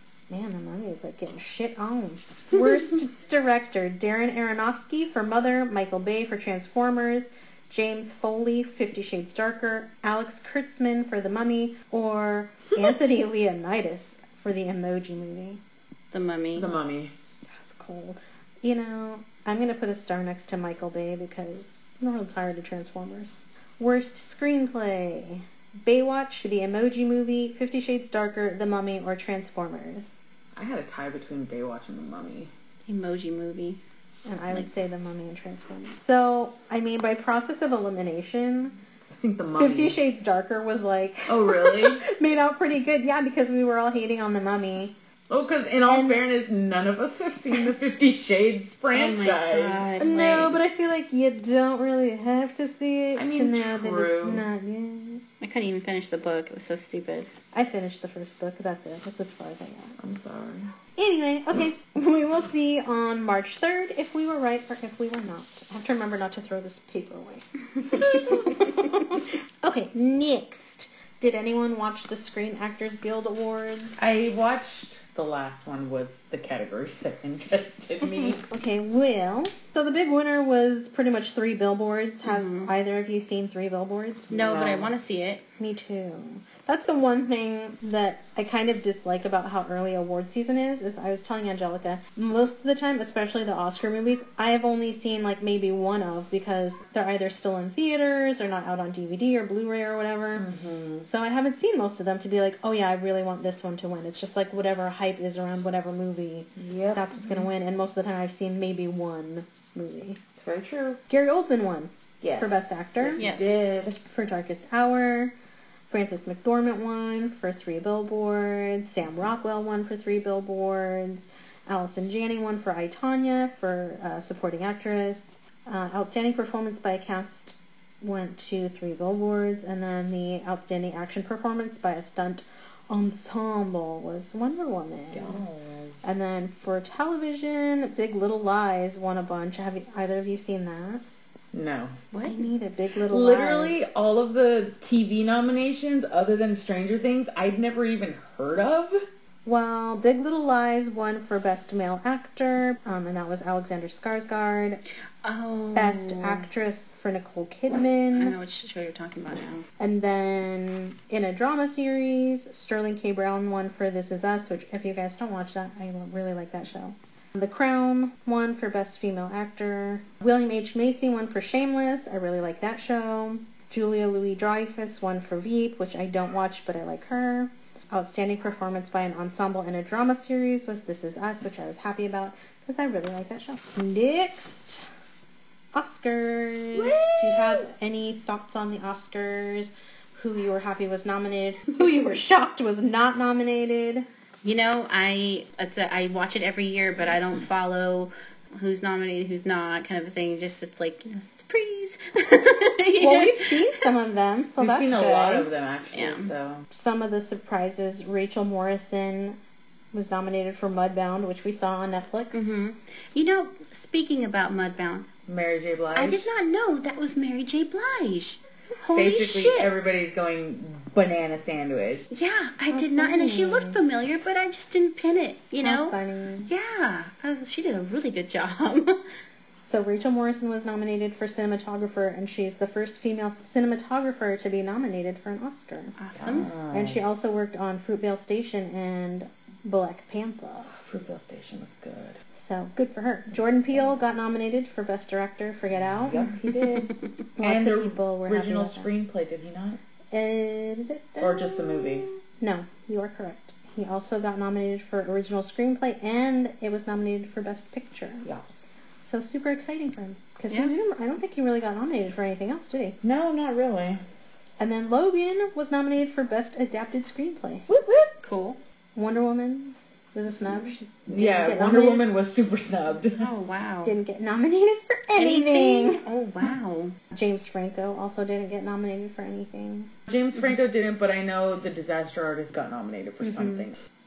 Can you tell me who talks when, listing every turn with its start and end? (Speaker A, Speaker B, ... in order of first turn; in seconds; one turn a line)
Speaker A: 0.3-15.6
Speaker B: 16.1-16.7
Speaker C: 16.6-17.1
Speaker A: 17.5-30.1
Speaker C: 30.6-32.5
Speaker B: 32.9-33.8
Speaker A: 34.2-38.8
Speaker C: 39.1-40.0
Speaker A: 39.6-44.9
Speaker C: 41.3-42.0
Speaker C: 45.3-50.6
Speaker A: 45.9-46.2
Speaker B: 48.9-50.5
Speaker A: 50.0-55.2
Speaker C: 53.1-54.4
Speaker B: 55.4-57.3
Speaker A: 57.5-59.9
Speaker C: 60.0-60.7
Speaker A: 61.0-74.0
Speaker C: 74.0-78.5
Speaker A: 78.5-84.3
Speaker B: 82.2-82.7
Speaker B: 84.3-85.4
Speaker C: 84.3-84.9
Speaker A: 85.6-100.5
Speaker C: 100.3-101.1
Speaker A: 101.0-110.2
Speaker C: 106.6-107.5
Speaker C: 110.3-111.0
Speaker A: 111.1-113.3
Speaker C: 112.2-114.0
Speaker B: 113.2-113.6
Speaker A: 113.9-115.3
Speaker A: 115.9-135.4
Speaker C: 135.1-136.0
Speaker A: 136.0-141.0
Speaker C: 141.5-142.0
Speaker B: 142.1-142.5
Speaker A: 142.2-143.8
Speaker C: 143.1-149.0
Speaker A: 149.4-154.8
Speaker B: 155.2-156.5
Speaker A: 155.7-158.3
Speaker B: 158.1-159.7
Speaker A: 159.8-184.8
Speaker A: 185.7-194.1
Speaker C: 186.7-187.7
Speaker B: 194.4-203.8
Speaker A: 203.0-205.5
Speaker C: 204.6-206.7
Speaker B: 205.9-206.3
Speaker A: 206.7-209.4
Speaker A: 209.9-212.5
Speaker B: 212.3-215.1
Speaker C: 215.3-216.2
Speaker B: 215.9-219.7
Speaker C: 218.9-222.1
Speaker B: 222.1-229.0
Speaker A: 222.7-223.8
Speaker A: 225.6-226.5
Speaker A: 229.6-235.9
Speaker B: 236.0-236.5
Speaker C: 236.2-237.0
Speaker A: 236.7-240.7
Speaker C: 240.7-242.2
Speaker A: 242.4-248.9
Speaker C: 245.8-249.8
Speaker A: 250.1-258.3
Speaker C: 251.2-252.1
Speaker A: 259.0-263.0
Speaker C: 263.0-264.0
Speaker A: 264.6-267.7
Speaker C: 267.7-268.1
Speaker B: 268.2-268.6
Speaker A: 268.9-272.1
Speaker C: 271.1-273.2
Speaker B: 273.2-273.9
Speaker A: 273.8-276.0
Speaker B: 275.1-276.9
Speaker A: 277.1-279.9
Speaker C: 280.1-283.8
Speaker A: 283.2-283.7